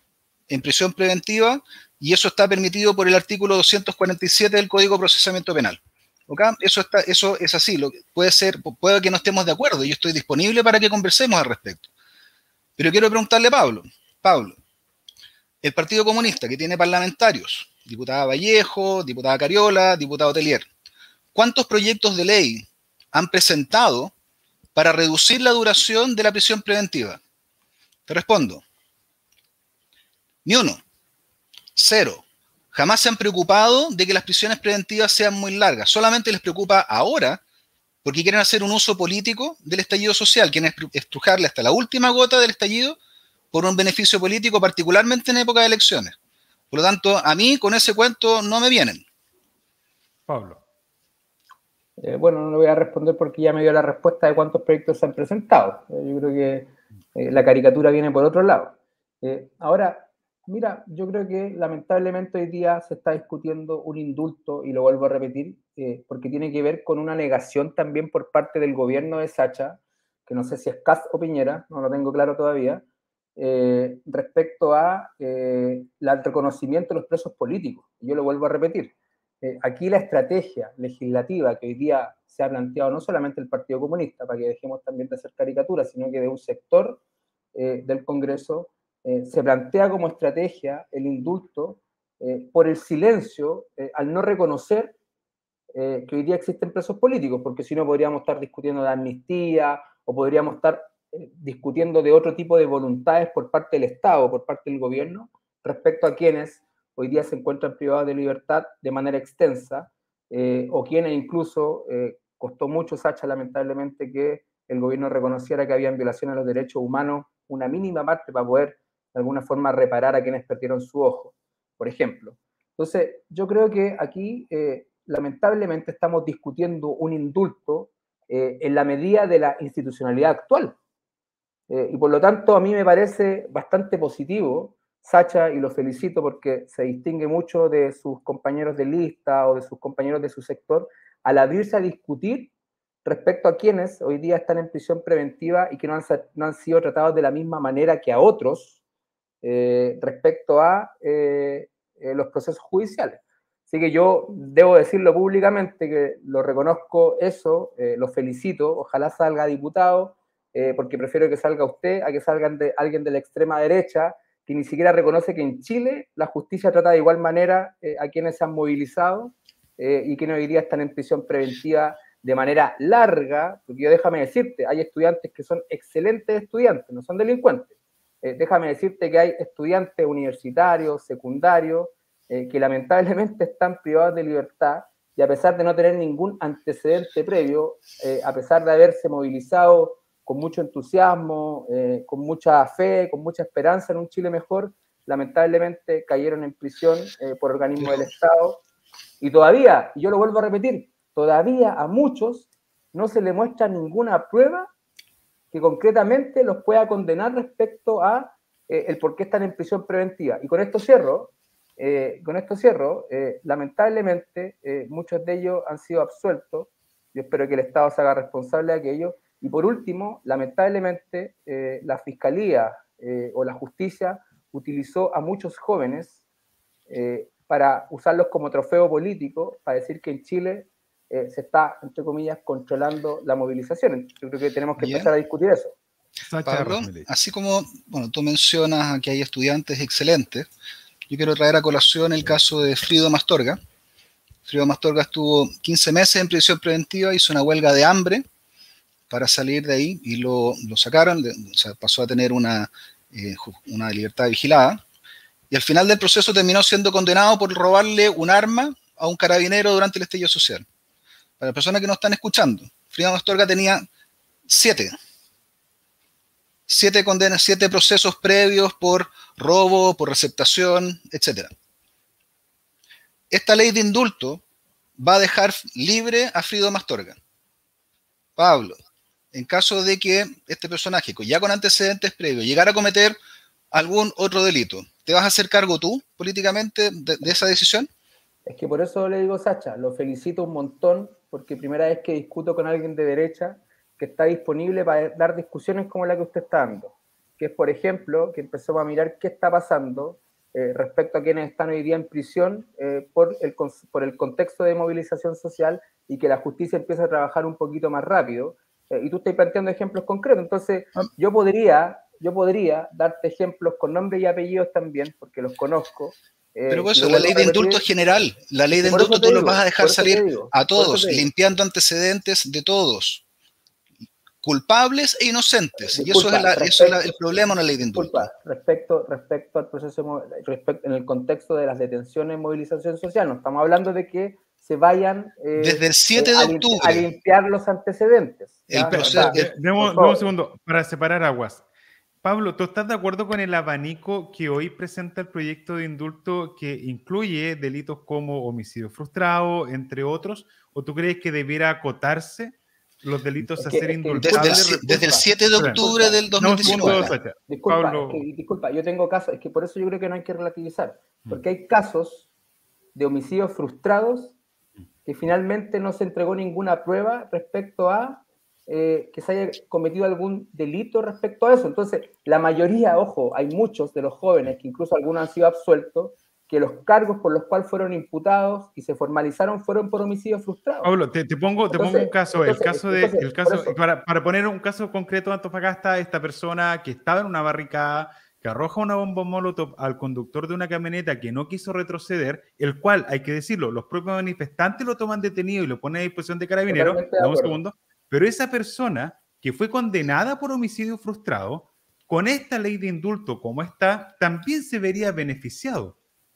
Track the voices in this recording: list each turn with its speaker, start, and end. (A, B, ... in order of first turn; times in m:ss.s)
0:00.5-0:11.9 A
0:12.8-0:14.6 A
0:15.6-0:20.7 A
0:21.3-0:24.1 A
0:24.7-0:27.2 A
0:28.1-0:28.6 A
0:30.4-0:30.8 A
0:31.7-0:37.4 A
0:38.0-0:43.0 A
0:43.5-0:46.2 A
0:46.7-0:49.0 A
0:50.3-0:50.6 B
0:52.0-1:12.8 C
1:13.4-1:27.0 C
1:27.5-1:34.9 C
1:35.7-2:10.8 C
2:11.7-2:22.5 C
2:23.0-2:28.8 C
2:29.4-3:18.6 C
3:17.8-3:18.1 A
3:19.2-3:24.7 C
3:25.5-3:46.2 C
3:46.9-3:55.8 C
3:54.8-3:55.1 A
3:56.2-3:57.1 B
3:56.4-4:00.5 A
4:01.1-4:03.6 A
4:04.4-4:08.2 A
4:09.1-4:14.8 A
4:15.5-4:20.6 A
4:21.4-4:23.9 A
4:24.5-4:24.9 A
4:26.7-4:31.5 A
4:33.3-4:34.4 A
4:35.0-4:37.2 A
4:38.4-4:38.8 A
4:39.3-4:43.2 A
4:43.7-4:47.9 A
4:48.4-5:17.8 C
5:16.7-5:23.2 A
5:18.7-5:21.3 C
5:24.4-5:28.3 A
5:25.8-5:27.0 C
5:27.9-5:40.3 C
5:35.6-5:37.0 A
5:38.7-5:39.5 A
5:38.8-5:41.6 B
5:42.2-5:55.8 B
5:53.6-6:02.3 C
5:54.2-5:57.1 A
5:56.4-5:58.2 B
6:02.9-6:04.3 C
6:05.0-6:20.9 C
6:20.8-6:46.0 B
6:21.7-6:23.8 C
6:36.7-6:37.6 C